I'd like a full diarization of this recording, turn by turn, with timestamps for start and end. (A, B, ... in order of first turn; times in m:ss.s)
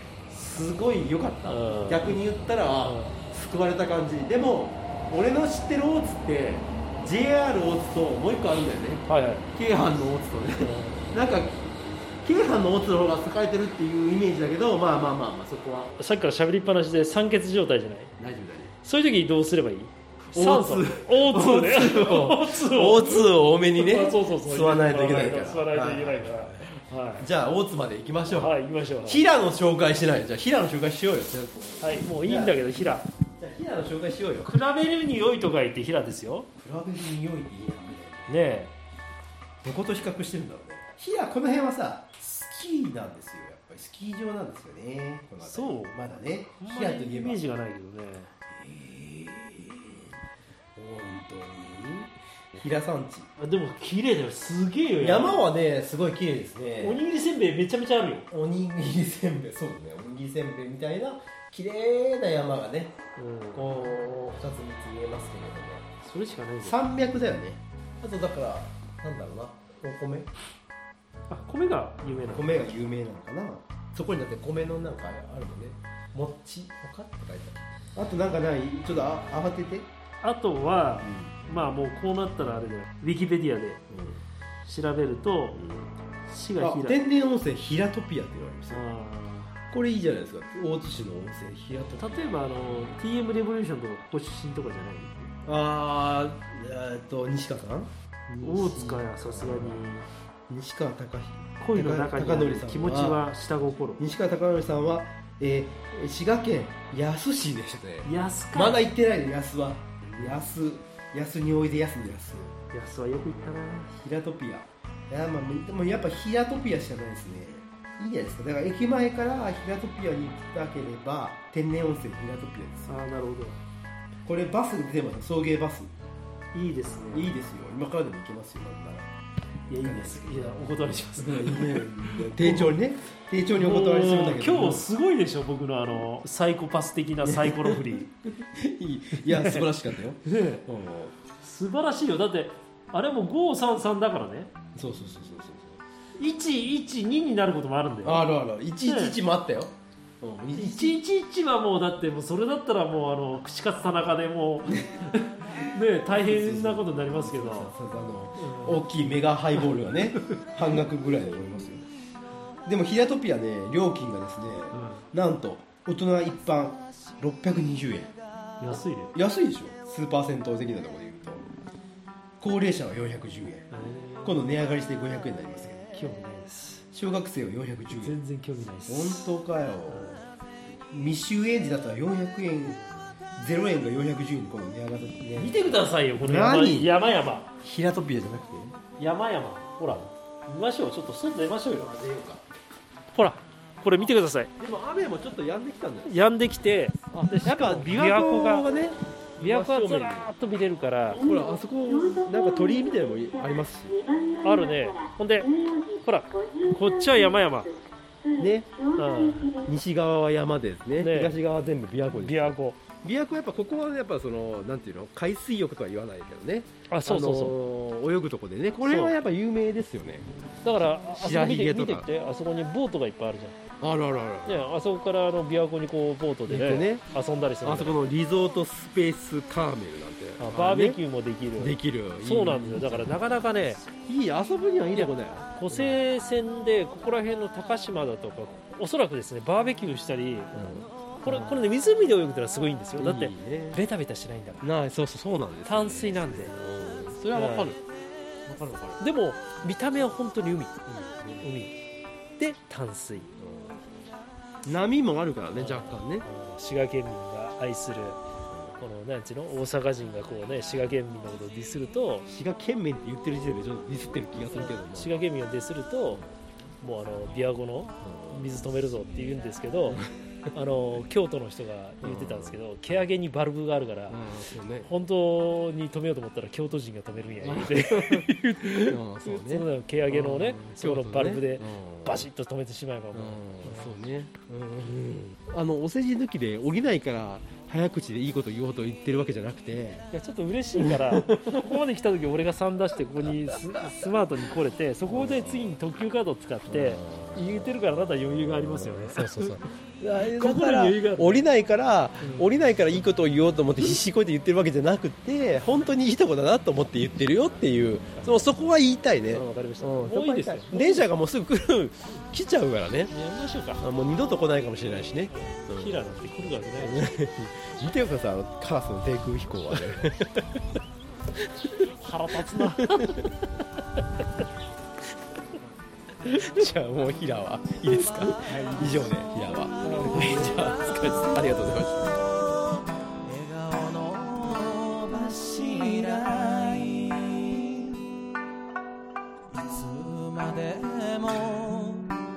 0:00.3-0:16.0 A
0:01.5-0:02.2 B
0:02.8-0:03.2 B
0:09.1-0:09.5 B
0:10.6-0:11.0 B
0:16.0-0:18.1 B
0:18.2-0:18.7 A
0:18.8-0:27.3 B
0:20.3-0:32.6 A
0:28.3-0:29.2 B
0:31.8-0:33.1 B
0:33.4-0:34.5 A
0:34.4-0:36.5 B
0:36.6-0:38.5 A
0:38.3-0:38.7 B
0:39.6-0:47.4 A
0:45.4-0:46.0 B
0:46.6-0:48.3 B
0:48.5-0:50.1 A
0:50.8-0:53.3 A
0:53.4-0:55.4 B
0:55.0-0:57.0 A
0:56.8-0:58.3 B
0:58.3-1:03.0 A
1:03.2-1:03.6 B
1:03.5-1:05.8 A
1:06.0-1:06.8 B
1:06.6-1:10.3 A
1:11.3-1:12.6 B
1:12.3-1:19.9 A
1:20.2-1:23.8 B
1:21.0-1:21.3 A
1:23.9-1:24.2 A
1:24.6-1:25.6 B
1:25.5-1:25.9 A
1:26.3-1:27.0 B
1:26.6-1:28.8 A
1:28.7-1:29.5 B
1:29.7-1:32.4 A
1:32.0-1:35.3 B
1:35.4-1:39.8 A
1:38.4-1:40.0 B
1:40.5-1:43.2 A
1:41.6-1:44.0 B
1:44.0-1:52.6 A
1:48.0-1:48.8 B
1:52.7-1:54.0 B
1:54.0-2:03.0 A
2:02.9-2:03.6 B
2:04.2-2:05.9 A
2:06.5-2:07.3 B
2:07.1-2:09.1 A
2:09.7-2:12.8 B
2:09.8-2:10.5 A
2:11.2-2:14.9 A
2:13.6-2:18.1 B
2:17.2-2:21.1 A
2:19.2-2:19.7 B
2:20.2-2:20.6 B
2:21.4-2:24.5 B
2:24.7-2:25.8 A
2:26.2-2:28.3 B
2:28.0-2:31.0 A
2:28.8-2:29.2 B
2:30.5-2:37.7 B
2:34.7-2:35.1 A
2:36.0-2:41.8 A
2:38.4-2:38.8 B
2:42.6-2:48.1 A
2:44.7-2:45.0 B
2:48.6-2:49.2 B
2:49.1-2:51.5 A
2:52.4-2:53.7 A
2:53.7-2:54.4 B
2:54.2-2:55.9 A
2:55.9-2:56.8 B
2:56.9-2:58.2 A
2:57.9-2:59.3 B
2:58.9-3:00.2 A
2:59.9-3:00.2 B
3:00.9-3:02.8 A
3:03.4-3:06.9 A
3:05.4-3:07.5 B
3:07.6-3:08.8 A
3:09.0-3:11.9 B
3:11.7-3:12.4 A
3:13.1-3:14.5 B
3:14.6-3:16.2 A
3:16.0-3:18.7 B
3:17.1-3:20.3 A
3:19.4-3:21.2 B
3:21.2-3:24.0 A
3:24.4-3:27.8 B
3:28.3-3:28.9 A
3:28.9-3:29.6 B
3:29.5-3:40.3 A
3:31.0-3:31.3 B
3:32.2-3:32.8 B
3:36.9-3:37.6 B
3:38.8-3:39.1 B
3:40.6-3:43.6 B
3:41.1-3:42.1 A
3:43.8-3:44.6 A
3:44.4-3:48.0 B
3:46.5-3:47.1 A
3:47.6-3:51.0 A
3:50.4-3:53.8 B
3:51.6-3:53.2 A
3:54.0-3:56.0 A
3:54.9-4:00.5 B
4:00.5-4:01.6 A
4:01.2-4:04.7 B
4:03.0-4:03.8 A
4:04.6-4:07.8 A
4:05.6-4:06.6 B
4:07.3-4:07.7 B
4:08.5-4:09.0 A
4:09.0-4:10.8 B
4:10.8-4:11.5 A
4:11.4-4:11.8 B
4:12.4-4:13.3 B
4:13.4-4:13.8 A
4:14.6-4:16.3 A
4:15.5-4:18.2 B
4:18.8-4:22.3 B
4:22.3-4:25.2 A
4:24.5-4:26.2 B
4:26.8-4:34.2 B
4:28.0-4:28.5 A
4:32.0-4:32.6 A
4:34.1-4:34.9 A
4:34.8-4:43.9 B
4:37.4-4:42.2 A
4:43.1-4:50.1 A
4:50.1-4:59.6 B
4:50.7-4:51.8 A
4:53.2-4:53.9 A
4:55.1-4:55.7 A
4:56.7-4:57.4 A
4:58.6-5:13.1 A
5:00.1-5:01.4 B
5:09.3-5:11.1 B
5:13.1-5:13.8 B
5:13.8-5:16.0 A
5:15.3-5:17.1 B
5:16.8-5:20.4 A
5:21.4-5:21.8 A
5:22.0-5:23.3 B
5:22.4-5:23.3 A
5:26.2-5:32.1 A
5:28.5-5:29.0 C
5:29.5-5:38.0 C
5:29.8-5:30.5 B
5:39.5-5:42.1 C